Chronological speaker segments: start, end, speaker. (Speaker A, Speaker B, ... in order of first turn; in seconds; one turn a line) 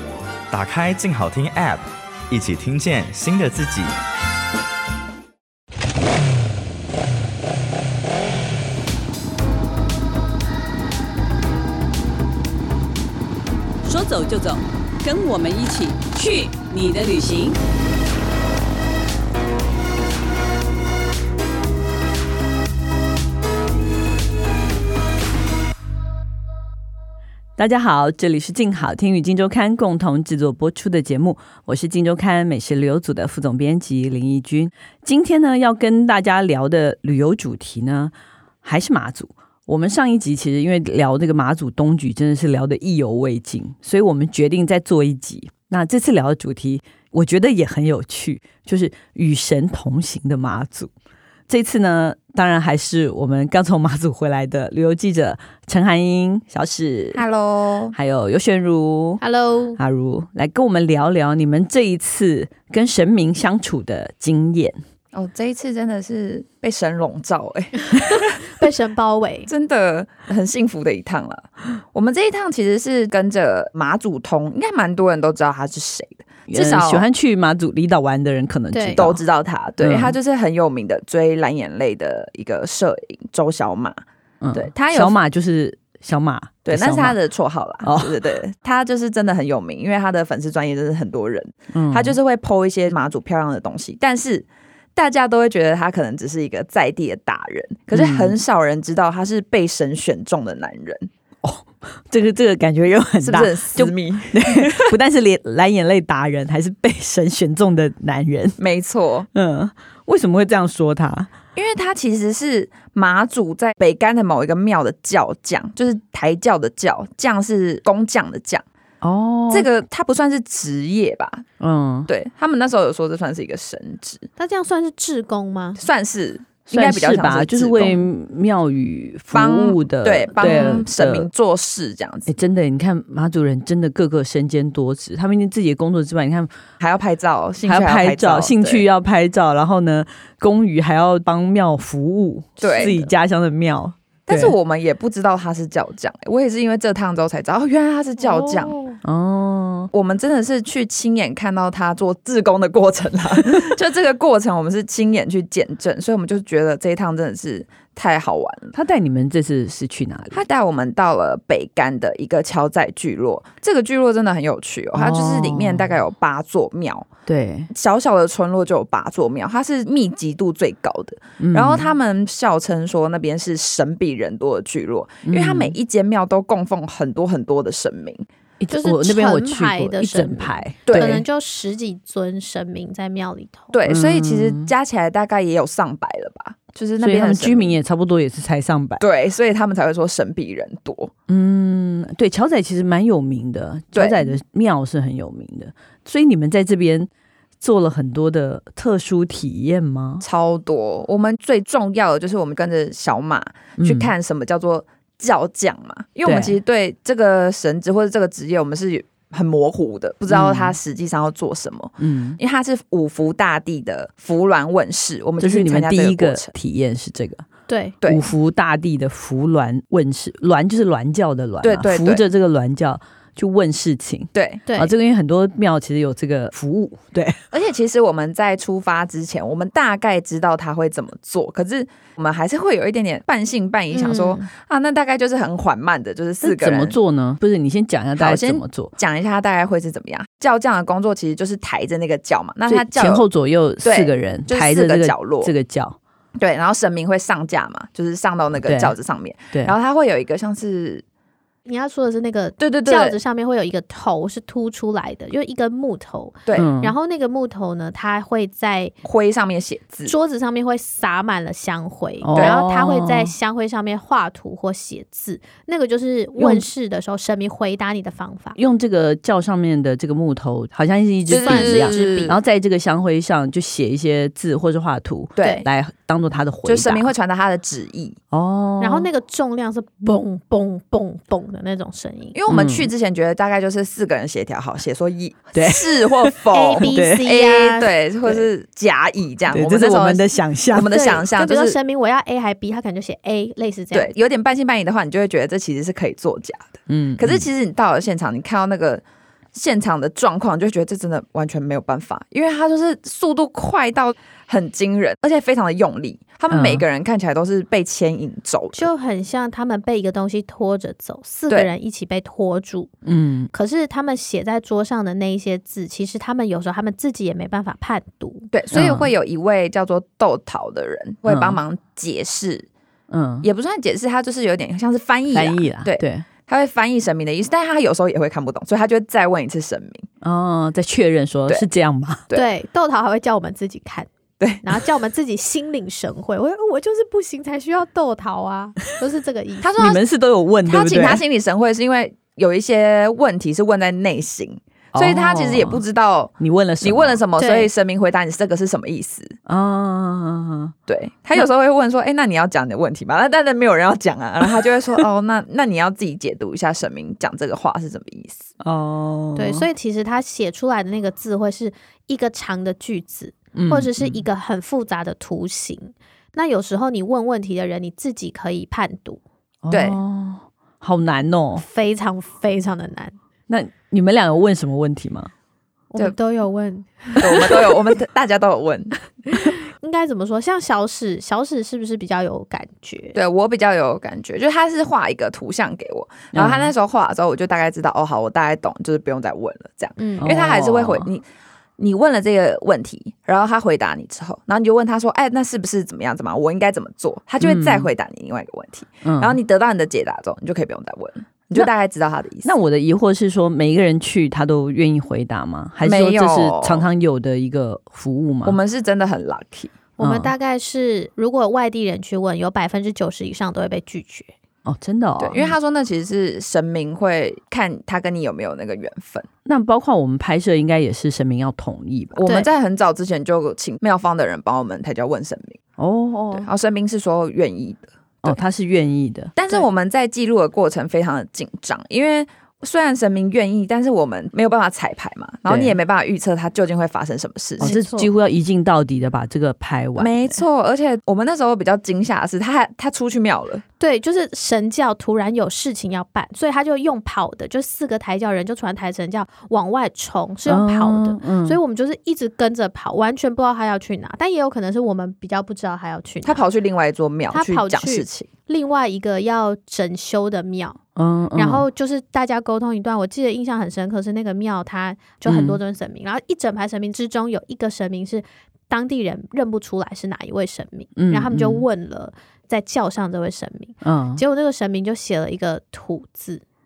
Speaker A: 0.5-3.9
Speaker B: 13.8-17.6
Speaker B: 27.6-50.9
Speaker B: 51.5-57.2
Speaker C: 57.1-58.0
Speaker B: 57.9-59.2
Speaker D: 59.2-59.8
Speaker B: 59.8-64.8
Speaker C: 65.1-68.4
Speaker D: 68.5-69.5
Speaker C: 69.5-77.0
Speaker B: 76.5-79.2
Speaker D: 78.7-79.0
Speaker C: 78.9-84.0
Speaker B: 79.8-80.1
Speaker B: 84.4-87.2
Speaker C: 84.5-85.2
Speaker C: 86.6-101.1
Speaker B: 87.8-88.2
Speaker B: 91.7-92.2
Speaker B: 97.9-98.4
Speaker B: 101.4-108.6
Speaker C: 103.2-105.0
Speaker C: 108.6-109.3
Speaker B: 109.3-111.3
Speaker C: 111.5-118.6
Speaker B: 119.0-119.7
Speaker C: 119.5-121.4
Speaker B: 121.6-122.1
Speaker C: 122.1-124.3
Speaker D: 124.4-125.8
Speaker C: 125.8-128.0
Speaker B: 126.7-131.3
Speaker C: 129.3-132.3
Speaker D: 130.4-130.8
Speaker B: 132.3-136.5
Speaker C: 136.8-138.8
Speaker B: 137.7-144.5
Speaker C: 142.6-143.0
Speaker C: 144.3-148.7
Speaker D: 148.3-148.9
Speaker B: 149.0-149.9
Speaker C: 149.9-158.7
Speaker B: 158.7-160.4
Speaker C: 160.3-167.1
Speaker B: 164.9-165.9
Speaker B: 167.3-167.7
Speaker C: 167.7-178.2
Speaker B: 171.4-171.9
Speaker B: 175.2-175.7
Speaker B: 178.6-181.2
Speaker D: 178.7-183.7
Speaker C: 180.8-181.2
Speaker C: 183.7-187.8
Speaker B: 183.9-184.7
Speaker B: 187.0-189.0
Speaker C: 189.0-191.1
Speaker B: 191.3-197.1
Speaker C: 193.9-194.3
Speaker B: 197.6-200.2
Speaker C: 200.2-216.5
Speaker B: 203.8-204.1
Speaker B: 206.2-206.6
Speaker B: 210.3-210.8
Speaker B: 212.0-212.4
Speaker B: 215.4-217.4
Speaker D: 217.7-217.9
Speaker B: 218.1-227.4
Speaker C: 221.6-222.2
Speaker C: 224.3-224.6
Speaker D: 224.7-224.9
Speaker C: 227.5-236.9
Speaker D: 233.9-234.5
Speaker B: 236.4-238.9
Speaker C: 238.2-243.2
Speaker B: 242.7-246.0
Speaker C: 243.8-245.5
Speaker C: 246.4-251.0
Speaker B: 248.6-248.9
Speaker D: 251.7-258.9
Speaker C: 252.6-253.2
Speaker B: 256.5-256.9
Speaker C: 259.0-260.1
Speaker D: 260.0-268.6
Speaker B: 262.2-263.3
Speaker B: 266.4-266.6
Speaker B: 268.6-277.1
Speaker C: 271.3-272.3
Speaker D: 271.4-272.4
Speaker C: 275.4-275.6
Speaker D: 275.4-275.6
Speaker C: 276.6-278.2
Speaker B: 278.3-279.1
Speaker D: 278.8-282.4
Speaker C: 282.3-291.8
Speaker B: 282.5-282.9
Speaker B: 285.5-287.2
Speaker D: 286.5-288.4
Speaker B: 289.5-291.0
Speaker D: 290.8-294.1
Speaker C: 293.9-299.0
Speaker B: 296.9-297.5
Speaker C: 299.5-308.9
Speaker B: 306.5-306.8
Speaker D: 308.7-312.9
Speaker B: 313.0-313.5
Speaker D: 313.5-318.5
Speaker C: 318.5-322.7
Speaker B: 318.7-319.1
Speaker B: 321.2-321.6
Speaker B: 323.1-323.5
Speaker C: 323.4-330.1
Speaker B: 325.3-326.2
Speaker B: 330.2-332.2
Speaker D: 332.3-334.1
Speaker D: 334.6-339.8
Speaker C: 339.6-340.0
Speaker B: 339.8-341.2
Speaker C: 340.6-349.4
Speaker B: 344.9-345.8
Speaker B: 346.4-347.2
Speaker D: 347.4-347.7
Speaker B: 349.5-350.7
Speaker C: 350.9-358.5
Speaker B: 358.6-359.6
Speaker D: 359.4-369.2
Speaker B: 363.5-364.2
Speaker B: 369.6-371.6
Speaker C: 369.7-370.0
Speaker D: 371.6-373.1
Speaker B: 373.5-375.3
Speaker D: 375.9-377.5
Speaker C: 377.2-378.9
Speaker D: 379.3-383.2
Speaker C: 383.1-391.2
Speaker B: 386.3-386.7
Speaker D: 390.0-390.6
Speaker B: 390.2-391.1
Speaker C: 391.8-402.5
Speaker B: 397.4-397.9
Speaker B: 399.0-399.4
Speaker B: 402.4-408.6
Speaker C: 405.8-406.8
Speaker C: 408.4-409.7
Speaker D: 410.0-414.3
Speaker B: 410.0-410.3
Speaker B: 414.6-415.5
Speaker C: 415.2-419.3
Speaker B: 419.4-422.2
Speaker C: 422.1-425.6
Speaker B: 425.8-426.5
Speaker C: 426.3-428.3
Speaker B: 428.2-429.3
Speaker C: 429.4-437.7
Speaker B: 435.5-435.8
Speaker D: 437.6-438.1
Speaker B: 437.6-440.4
Speaker C: 440.0-443.6
Speaker D: 443.8-456.4
Speaker B: 450.4-451.6
Speaker C: 456.2-458.3
Speaker D: 457.3-460.8
Speaker B: 460.9-461.6
Speaker D: 461.3-476.4
Speaker B: 465.2-465.6
Speaker B: 470.9-471.6
Speaker B: 473.8-474.2